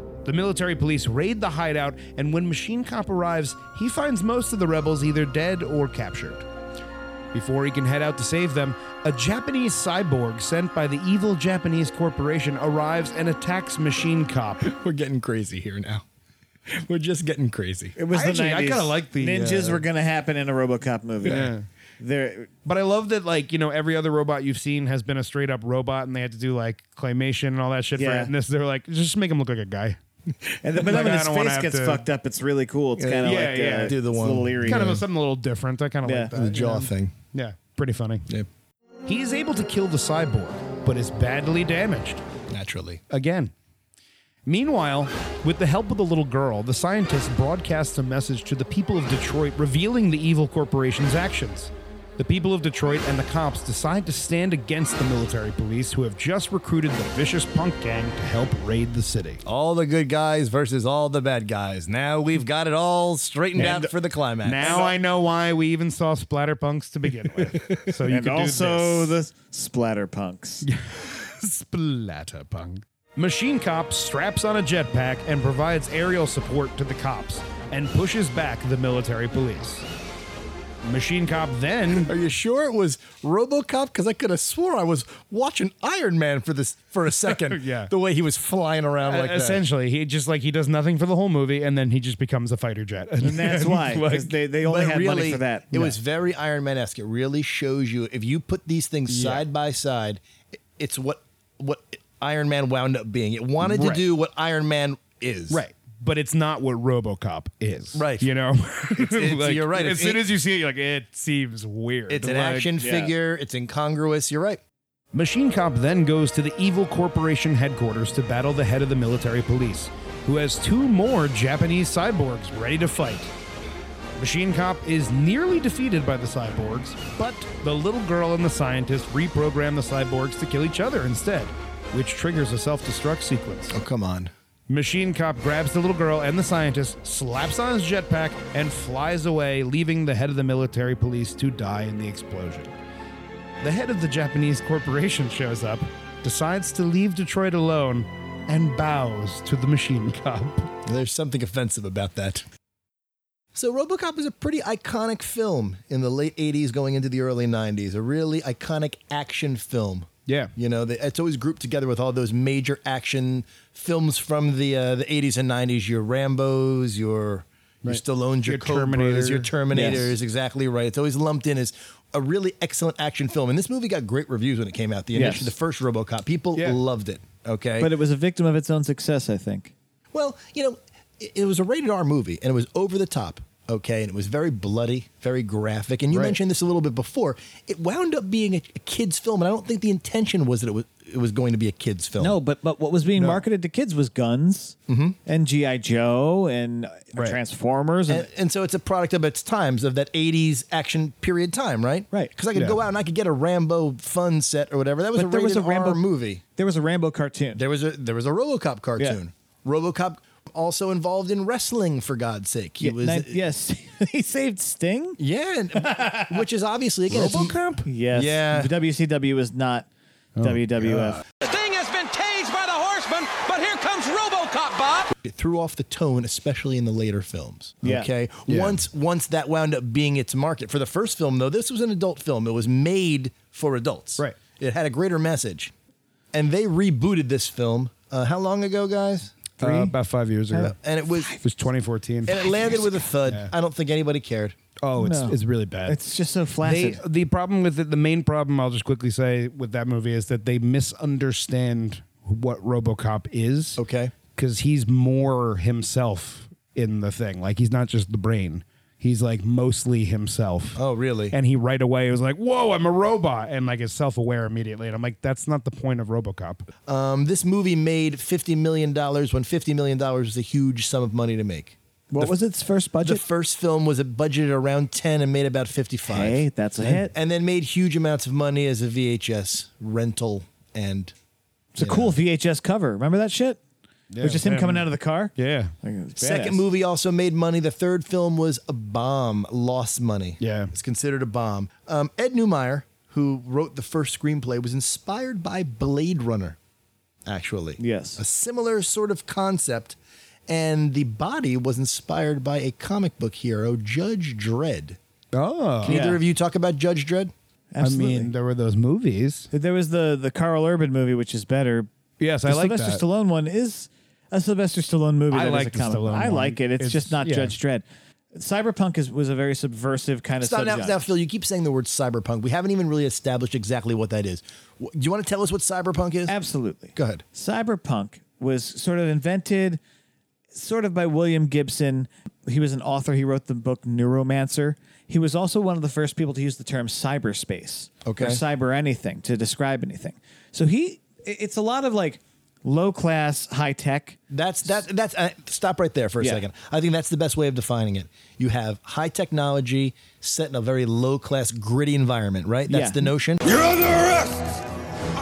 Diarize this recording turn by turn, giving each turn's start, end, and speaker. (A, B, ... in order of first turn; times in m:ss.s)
0:00.2-0:06.4 A
0:07.3-0:14.7 A
0:14.6-0:16.0 B
0:16.7-0:18.0 B
0:18.0-0:22.5 C
0:18.1-0:19.8 A
0:21.2-0:21.6 A
0:22.7-0:30.0 A
0:28.0-0:28.3 C
0:30.6-0:35.0 C
0:30.8-0:32.0 A
0:33.0-0:35.0 B
0:33.2-0:33.9 A
0:34.6-0:38.3 A
0:36.0-0:36.3 C
0:36.3-0:37.1 B
0:39.1-0:42.2 A
0:42.5-0:43.0 B
0:43.1-0:43.5 A
0:44.5-0:59.4 A
0:59.4-1:05.0 B
1:03.6-1:03.9 C
1:04.4-1:09.2 A
1:08.1-1:10.7 C
1:10.6-1:19.9 A
1:20.8-1:22.1 A
1:22.0-1:29.6 B
1:27.3-1:27.9 A
1:29.0-1:34.4 A
1:33.2-1:36.0 C
1:34.6-1:40.2 B
1:39.1-1:39.4 A
1:40.8-1:45.6 B
1:43.7-1:44.0 A
1:45.5-1:52.7 A
1:48.0-1:48.3 B
1:49.0-1:50.2 B
1:52.1-1:54.6 B
1:52.8-1:53.1 C
1:55.1-2:03.3 A
2:04.2-2:13.8 A
2:13.7-2:14.3 B
2:14.7-2:22.8 A
2:23.6-2:30.7 A
2:30.8-2:32.5 B
2:33.6-2:57.9 B
2:40.3-2:40.5 A
2:47.8-2:50.0 A
2:49.7-2:50.1 C
2:55.1-2:55.6 C
2:57.8-2:59.7 C
3:00.1-3:12.4 B
3:12.2-3:18.3 C
3:14.9-3:15.2 B
3:18.1-3:26.4 B
3:22.6-3:22.8 A
3:25.2-3:26.0 C
3:26.6-3:27.6 C
3:27.6-3:33.4 B
3:32.8-3:35.2 C
3:35.2-3:38.7 B
3:35.8-3:36.4 C
3:37.1-3:37.8 A
3:37.9-3:39.9 C
3:40.4-3:41.2 A
3:40.4-3:41.2 C
3:41.4-3:45.1 D
3:45.1-3:55.7 B
3:47.8-3:48.1 C
3:48.5-3:48.8 A
3:56.3-3:59.5 B
3:59.6-4:00.7 A
3:59.6-3:59.9 C
4:00.5-4:01.3 C
4:00.6-4:01.4 B
4:01.4-4:02.4 A
4:02.3-4:04.6 B
4:02.4-4:03.0 C
4:03.3-4:03.5 A
4:04.8-4:06.0 A
4:05.0-4:07.0 C
4:06.6-4:13.8 A
4:13.8-4:14.1 B
4:14.4-4:20.8 A
4:20.8-4:21.4 B
4:21.3-4:26.7 A
4:26.9-4:32.3 B
4:32.1-4:33.2 C
4:33.0-4:36.4 B
4:36.1-4:37.1 C
4:37.1-4:41.1 B
4:41.8-4:43.6 C
4:41.8-4:42.2 B
4:44.1-4:45.7 A
4:44.2-4:46.6 C
4:46.2-4:56.6 B
4:50.4-4:50.7 A
4:57.2-5:05.0 B
4:57.8-4:58.2 C
5:05.3-5:06.0 A
5:05.8-5:07.3 B
5:05.9-5:06.2 C
5:07.7-5:08.3 C
5:07.8-5:09.5 A
5:09.5-5:11.9 C
5:12.2-5:13.0 A
5:12.5-5:17.8 C
5:15.3-5:17.5 A
5:18.4-5:21.0 C
5:20.4-5:26.3 B
5:26.3-5:29.8 C
5:27.0-5:27.2 B
5:30.5-5:44.2 C
5:38.0-5:38.4 B
5:44.3-5:53.6 B
5:52.7-5:53.0 C